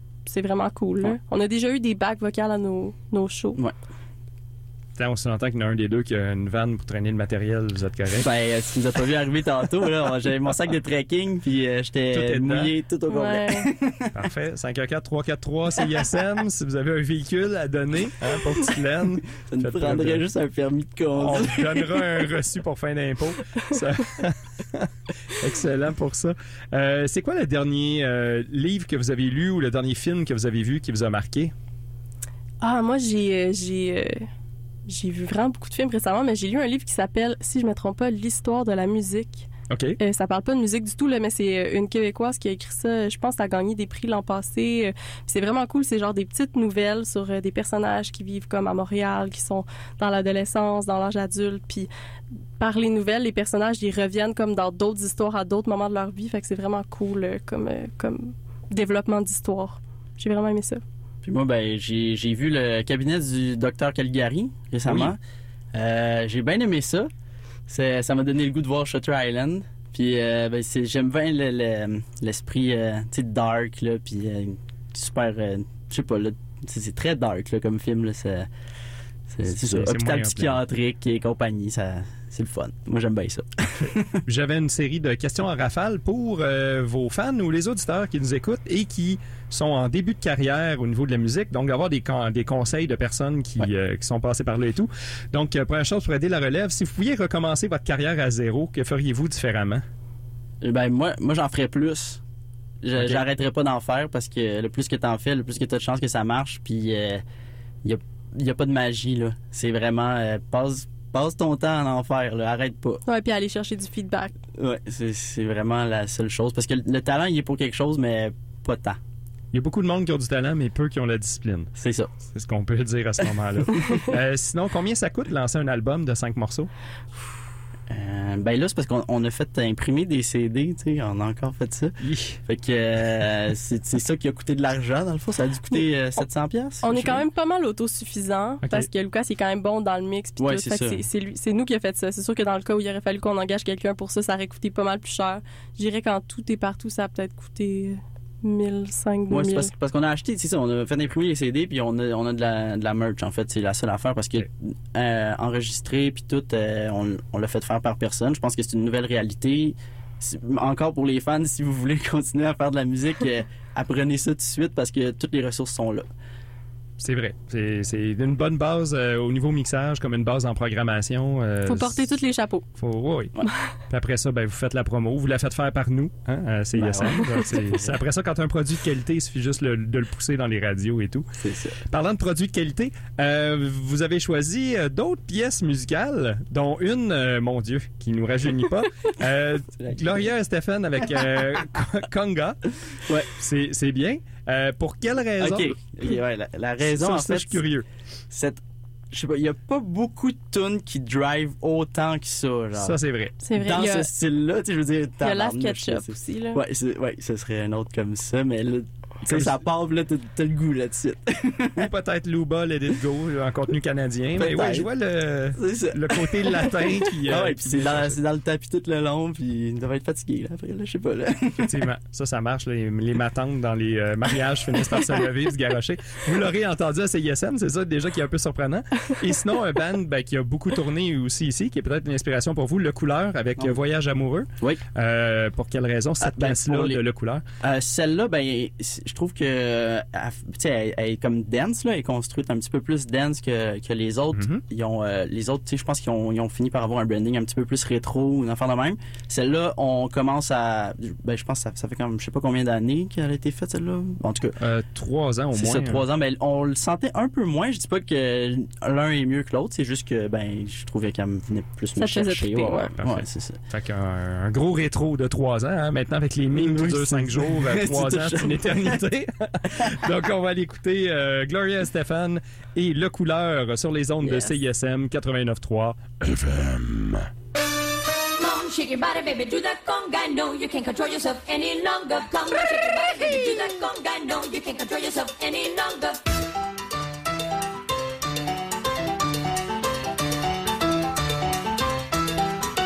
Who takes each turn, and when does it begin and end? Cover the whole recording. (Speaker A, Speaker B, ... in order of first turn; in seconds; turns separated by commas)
Speaker A: 0.3-3.6, Speaker B: 5.0-8.3, Speaker C: 8.2-14.1, Speaker B: 12.1-12.7, Speaker A: 13.1-13.7, Speaker B: 14.1-20.2, Speaker C: 19.4-22.0, Speaker B: 21.2-31.5, Speaker A: 32.6-34.3, Speaker A: 34.9-39.5, Speaker B: 39.7-40.0, Speaker A: 40.0-51.9, Speaker A: 52.6-60.8, Speaker C: 61.2-65.2, Speaker B: 64.9-65.1, Speaker C: 65.7-67.1, Speaker C: 67.7-78.5, Speaker C: 79.3-84.2, Speaker B: 79.5-80.6, Speaker B: 84.3-99.8, Speaker C: 100.6-102.2, Speaker C: 102.8-107.2, Speaker B: 103.0-103.2, Speaker C: 107.8-113.0, Speaker A: 113.1-114.3, Speaker C: 114.6-119.0, Speaker B: 119.5-121.7, Speaker C: 121.8-122.1, Speaker B: 122.3-126.7, Speaker C: 127.9-137.2, Speaker B: 132.0-132.4, Speaker A: 136.8-149.7, Speaker C: 140.4-141.0, Speaker C: 149.3-166.1, Speaker B: 167.0-172.1, Speaker A: 171.7-172.7, Speaker B: 172.8-173.3, Speaker B: 173.9-181.2, Speaker C: 176.7-177.9, Speaker C: 181.4-181.8, Speaker B: 181.9-192.6, Speaker C: 189.8-190.3, Speaker C: 193.1-193.3, Speaker B: 193.3-196.2, Speaker C: 195.4-197.6, Speaker B: 196.8-197.9, Speaker C: 198.3-203.0, Speaker B: 202.8-203.3, Speaker A: 203.4-204.1, Speaker C: 203.6-211.9, Speaker A: 205.2-206.6, Speaker B: 209.3-209.6, Speaker B: 211.8-218.2, Speaker C: 214.4-214.9, Speaker C: 215.6-221.8, Speaker B: 221.6-237.4, Speaker C: 236.2-237.0, Speaker C: 237.6-254.6, Speaker B: 244.3-244.6, Speaker B: 254.6-256.0, Speaker C: 255.5-263.6, Speaker A: 262.0-262.9, Speaker B: 263.0-277.2, Speaker C: 266.5-269.0, Speaker C: 274.2-274.5, Speaker D: 278.4-286.2